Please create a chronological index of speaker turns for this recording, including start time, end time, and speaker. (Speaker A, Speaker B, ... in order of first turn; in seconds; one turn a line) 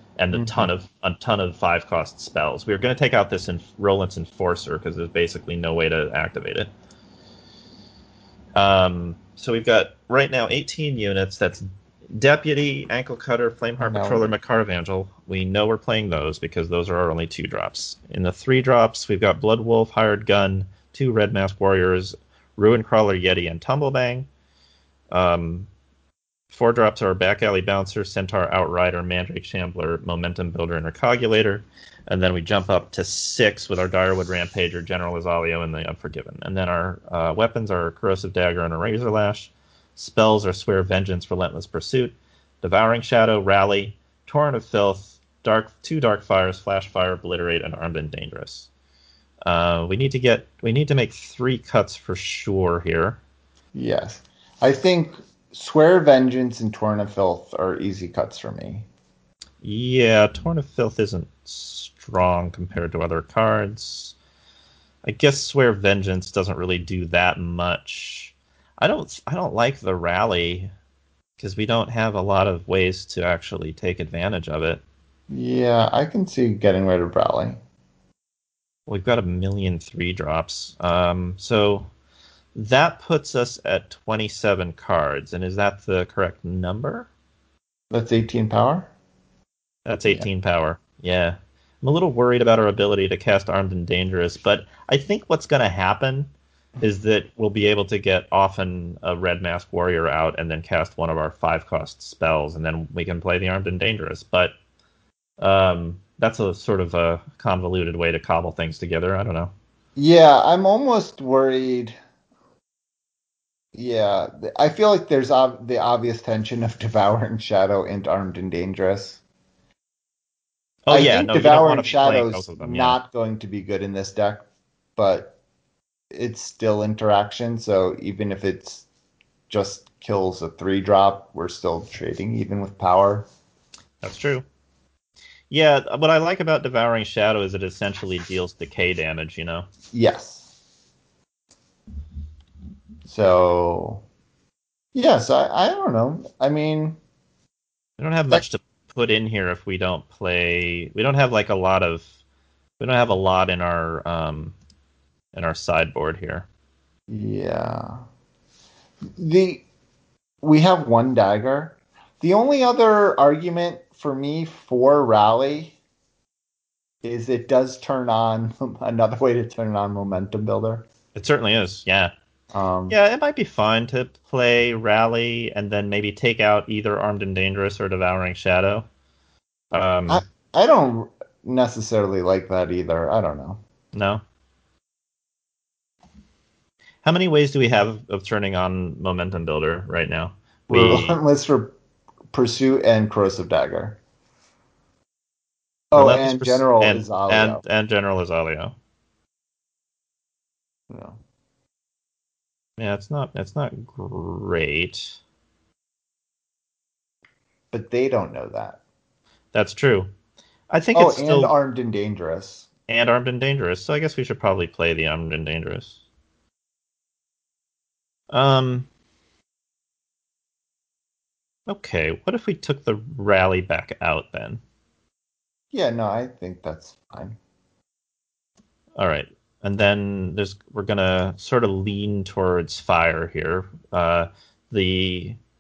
Speaker A: 0.2-6.7
Speaker B: 0.3-0.7
Speaker A: 8.6-24.3
Speaker B: 13.8-14.3
Speaker A: 25.1-25.7
Speaker A: 26.5-48.7
Speaker A: 49.4-53.2
Speaker B: 53.7-58.9
Speaker A: 59.6-64.2
Speaker A: 65.0-70.7
Speaker A: 71.4-74.8
Speaker B: 75.3-77.6
Speaker A: 78.9-81.9
Speaker A: 82.5-87.1
Speaker B: 87.9-88.9
Speaker A: 89.8-104.5
Speaker A: 105.4-109.5
Speaker B: 110.0-112.0
Speaker B: 113.7-119.2
Speaker A: 120.9-123.0
Speaker B: 120.9-124.5
Speaker B: 125.0-125.3
Speaker B: 126.1-128.9
Speaker B: 129.5-133.3
Speaker A: 134.0-134.5
Speaker A: 135.5-139.7
Speaker B: 139.9-140.5
Speaker B: 143.1-144.0
Speaker B: 144.9-147.0
Speaker A: 148.0-152.1
Speaker A: 152.8-154.6
Speaker A: 155.3-156.5
Speaker B: 157.1-158.1
Speaker B: 159.2-159.7
Speaker B: 160.4-165.8
Speaker B: 167.0-170.9
Speaker A: 171.2-172.1
Speaker B: 172.5-173.0
Speaker A: 172.9-178.9
Speaker A: 179.7-180.2
Speaker B: 180.1-183.6
Speaker A: 183.9-184.2
Speaker A: 187.0-191.2
Speaker B: 190.7-191.7
Speaker B: 192.3-194.0
Speaker B: 195.9-197.6
Speaker A: 195.9-198.8
Speaker B: 200.9-201.2
Speaker A: 202.8-205.2
Speaker B: 207.7-208.8
Speaker A: 209.5-210.1
Speaker A: 210.7-211.5
Speaker B: 210.9-212.7
Speaker A: 212.9-216.0
Speaker A: 218.3-218.9
Speaker A: 221.7-224.6
Speaker B: 225.7-227.4
Speaker A: 229.0-235.4